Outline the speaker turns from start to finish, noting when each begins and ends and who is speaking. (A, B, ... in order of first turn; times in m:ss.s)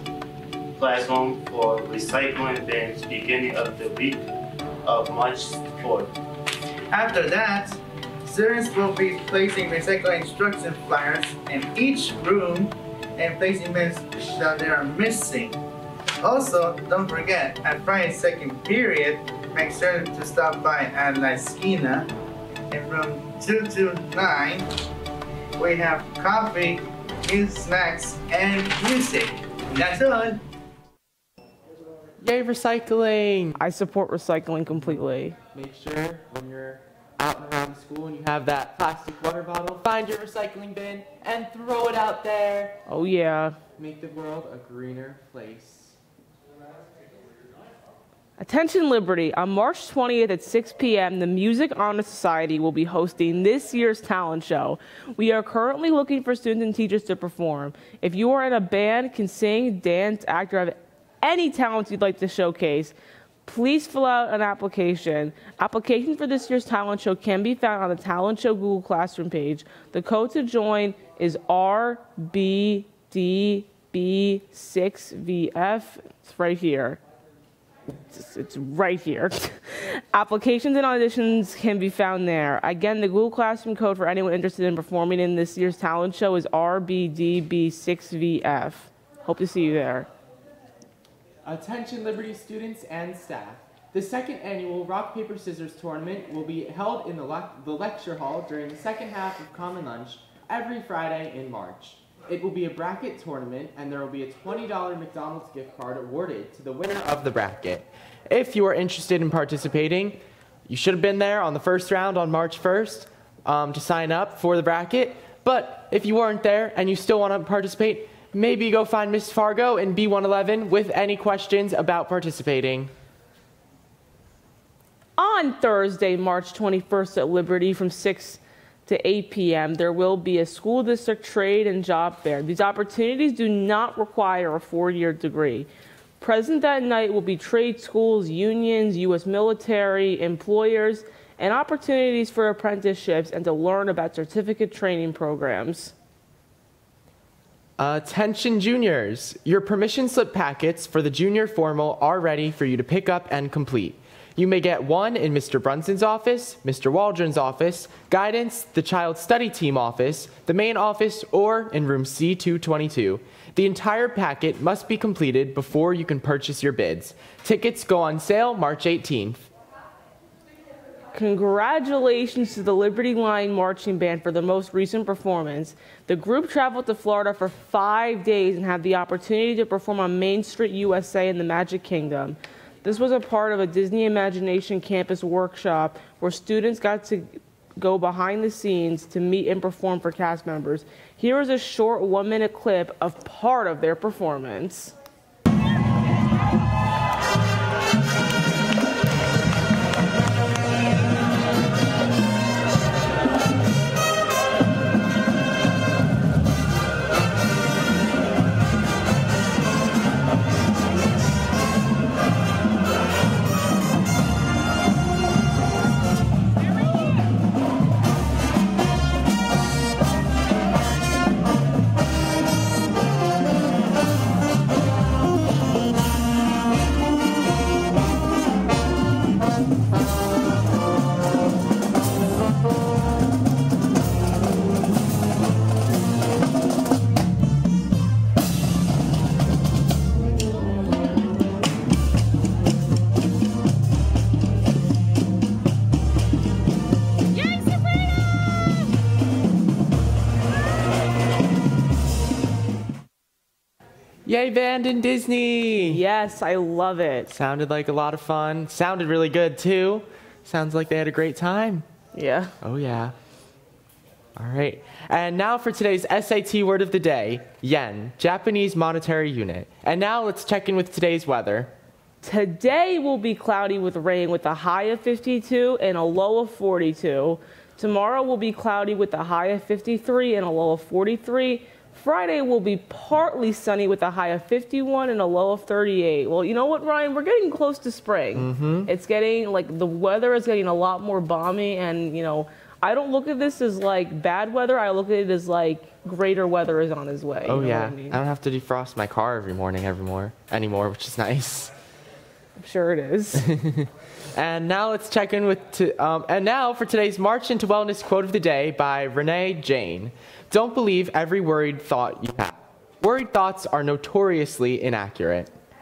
0:00.8-0:04.2 A
0:04.8-0:06.1 A
0:06.9-0:15.6 B
0:16.2-0:22.1 B
0:22.7-0:24.7 B
0:25.6-0:30.4 B
0:32.2-0:33.6 C
0:33.6-0:35.4 D
0:35.5-0:42.8 C
0:42.9-0:43.6 D
0:43.8-0:46.0 C
0:48.4-1:17.0 D
1:18.1-1:30.1 D
1:31.4-2:02.9 C
2:05.2-2:15.7 D
2:16.2-2:25.9 D
2:27.8-2:49.5 C
2:51.1-3:14.9 D
4:14.2-4:16.0 C
4:15.8-4:17.3 D
4:17.3-4:21.8 C
4:22.1-4:22.5 D
4:22.6-4:23.1 C
4:24.4-4:31.7 C
4:32.2-4:58.2 D
4:48.4-4:48.9 C
4:57.5-5:01.7 C
5:02.6-5:03.4 D
5:03.4-5:15.5 C